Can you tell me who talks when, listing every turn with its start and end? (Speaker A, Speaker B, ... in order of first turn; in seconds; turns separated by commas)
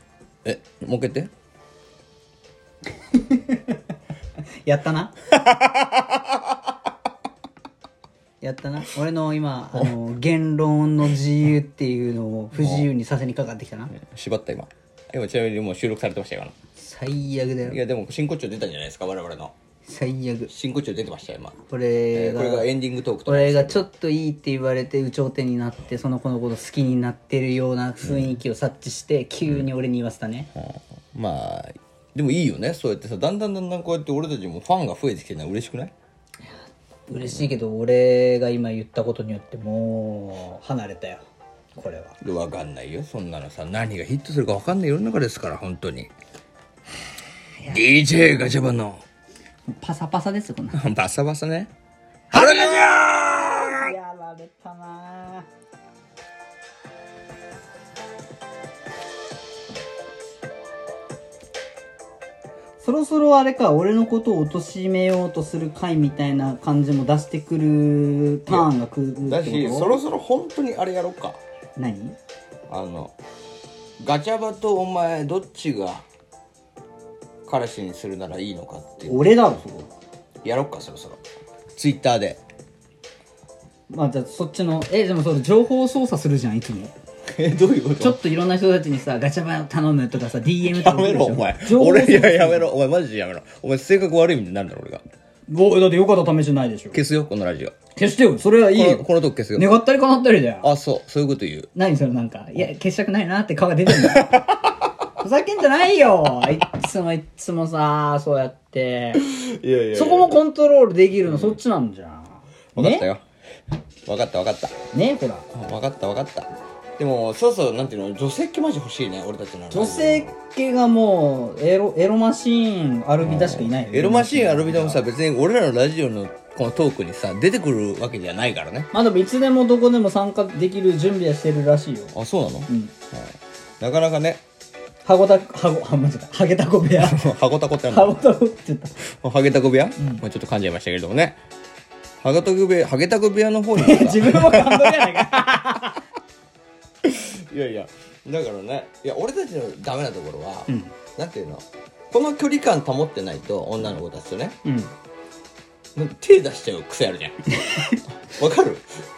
Speaker A: 0.4-1.3, Speaker B: 3.1-3.8, Speaker B: 4.6-5.2, Speaker A: 5.3-6.4, Speaker B: 8.4-13.9, Speaker A: 12.6-12.9, Speaker A: 13.9-16.5, Speaker B: 16.8-17.8, Speaker A: 17.7-19.5, Speaker B: 19.9-20.5, Speaker A: 20.5-21.6, Speaker B: 21.7-22.7, Speaker A: 22.1-23.9, Speaker B: 23.2-30.5, Speaker A: 28.0-28.4, Speaker A: 30.6-35.9, Speaker B: 37.1-41.2, Speaker B: 41.8-42.2, Speaker A: 42.2-46.1, Speaker A: 47.6-49.0, Speaker B: 49.7-50.8, Speaker A: 50.7-51.7, Speaker A: 52.3-53.9, Speaker B: 52.3-55.5, Speaker B: 62.8-70.0, Speaker A: 69.2-71.4, Speaker B: 71.8-72.2, Speaker A: 72.7-73.1, Speaker A: 74.0-76.0, Speaker A: 77.4-79.3, Speaker B: 79.1-79.9, Speaker A: 80.4-81.2, Speaker A: 81.8-82.4, Speaker B: 83.9-86.9, Speaker A: 87.3-88.2, Speaker B: 88.0-92.7, Speaker A: 90.5-95.0, Speaker B: 95.5-97.0, Speaker A: 96.9-97.7, Speaker B: 98.0-99.0, Speaker A: 98.6-99.8, Speaker B: 99.5-100.7, Speaker A: 100.6-101.7, Speaker B: 101.8-104.3, Speaker A: 103.9-104.8, Speaker B: 105.2-109.2, Speaker A: 109.2-110.4, Speaker B: 109.9-113.1, Speaker A: 111.2-111.6, Speaker A: 112.8-113.2, Speaker A: 114.0-114.8, Speaker B: 114.9-115.4, Speaker A: 115.5-120.3, Speaker B: 119.7-125.0, Speaker A: 123.2-128.9, Speaker B: 128.9-132.1, Speaker A: 132.1-134.4, Speaker B: 135.1-137.2, Speaker A: 137.0-138.2, Speaker B: 137.9-138.9, Speaker A: 139.2-141.4, Speaker A: 142.2-145.5, Speaker B: 143.8-146.0, Speaker A: 147.0-154.6, Speaker B: 150.7-150.9, Speaker B: 154.7-154.9, Speaker A: 155.9-157.4, Speaker B: 157.5-158.0, Speaker A: 158.3-158.9